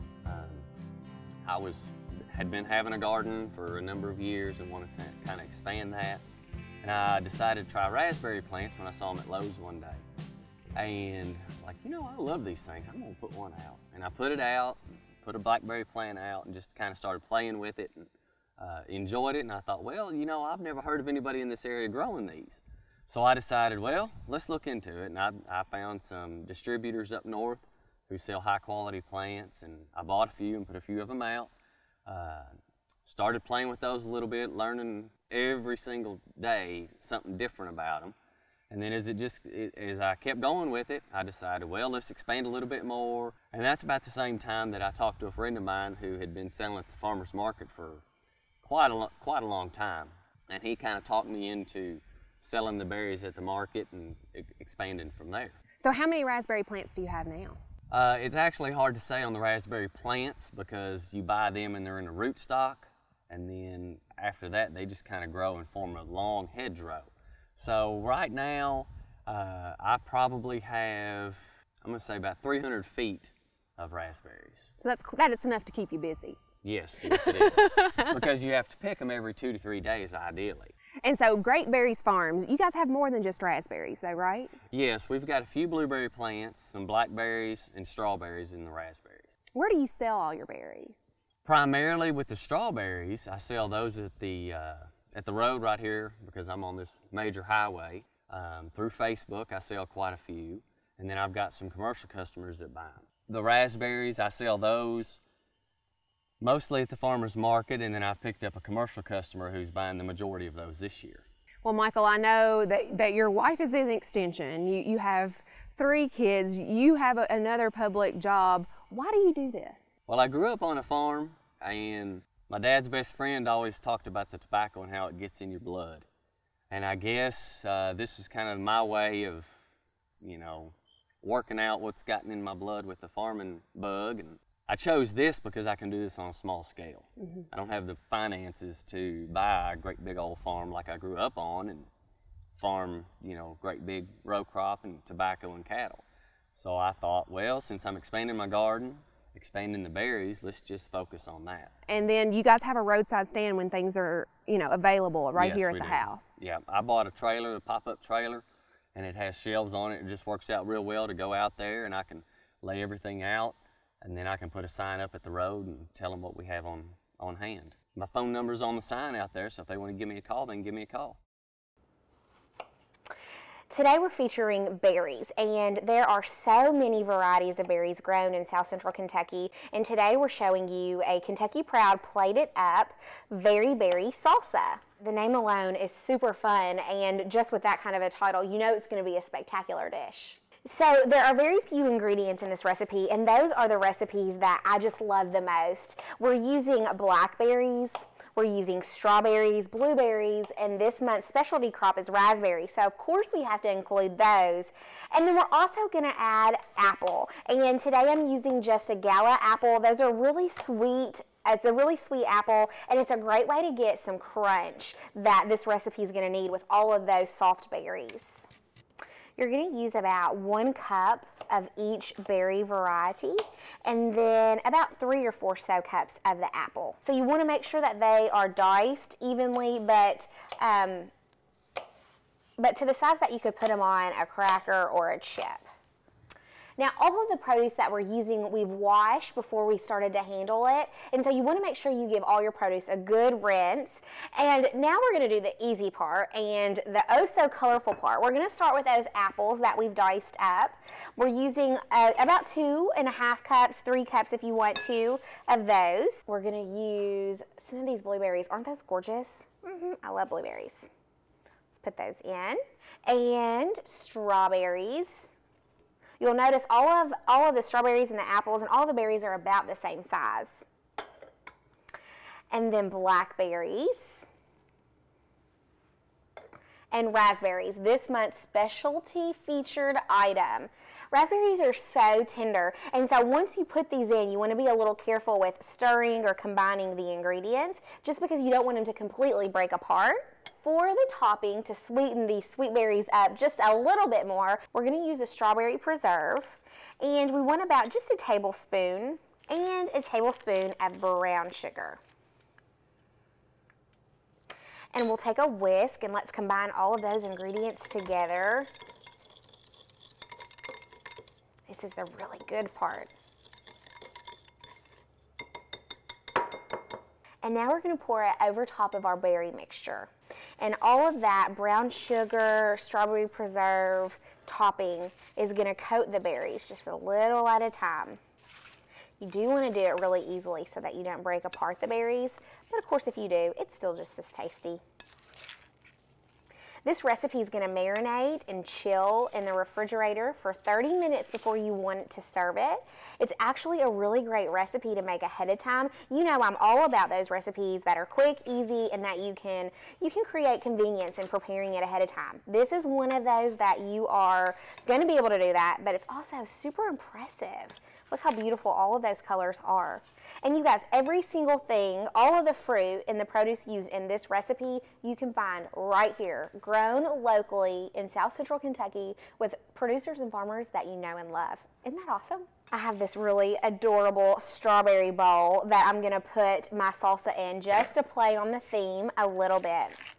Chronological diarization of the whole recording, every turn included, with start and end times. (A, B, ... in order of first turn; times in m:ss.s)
0:00.2-0:00.7 A
0:01.4-0:06.2 A
0:06.8-0:10.0 A
0:10.8-0:31.5 A
0:32.1-0:32.5 A
0:33.0-0:38.1 A
0:38.7-0:48.0 A
0:48.6-0:55.6 A
0:55.8-0:57.3 B
0:55.8-0:57.5 C
0:57.9-1:14.7 A
1:14.8-1:16.3 B
1:15.1-1:16.2 C
1:16.6-1:20.7 A
1:21.1-1:24.1 C
1:22.1-1:24.4 B
1:24.7-1:29.3 A
1:29.6-1:30.8 B
1:29.7-1:31.0 C
1:31.4-1:45.2 A
1:46.4-1:51.2 A
1:51.6-1:52.5 B
1:51.7-1:55.3 C
1:54.5-1:55.3 B
1:55.8-1:59.7 B
1:55.8-1:59.8 C
2:00.1-2:06.1 A
2:06.7-2:09.5 A
2:10.2-2:21.9 A
2:22.6-2:26.0 A
2:26.6-2:31.7 A
2:31.9-2:36.2 B
2:32.0-2:36.2 C
2:35.4-2:38.4 A
2:39.0-2:51.2 A
2:53.7-3:38.4 C
3:39.4-3:51.1 C
3:52.6-3:55.7 C
3:56.8-4:20.9 C
4:21.7-4:25.3 C
4:26.2-4:30.6 C
4:32.5-4:34.3 C
4:36.9-5:02.0 C
5:04.9-5:08.7 C
5:11.7-5:13.1 C
5:17.4-5:28.2 C
5:29.2-5:34.8 C
5:36.8-6:20.0 C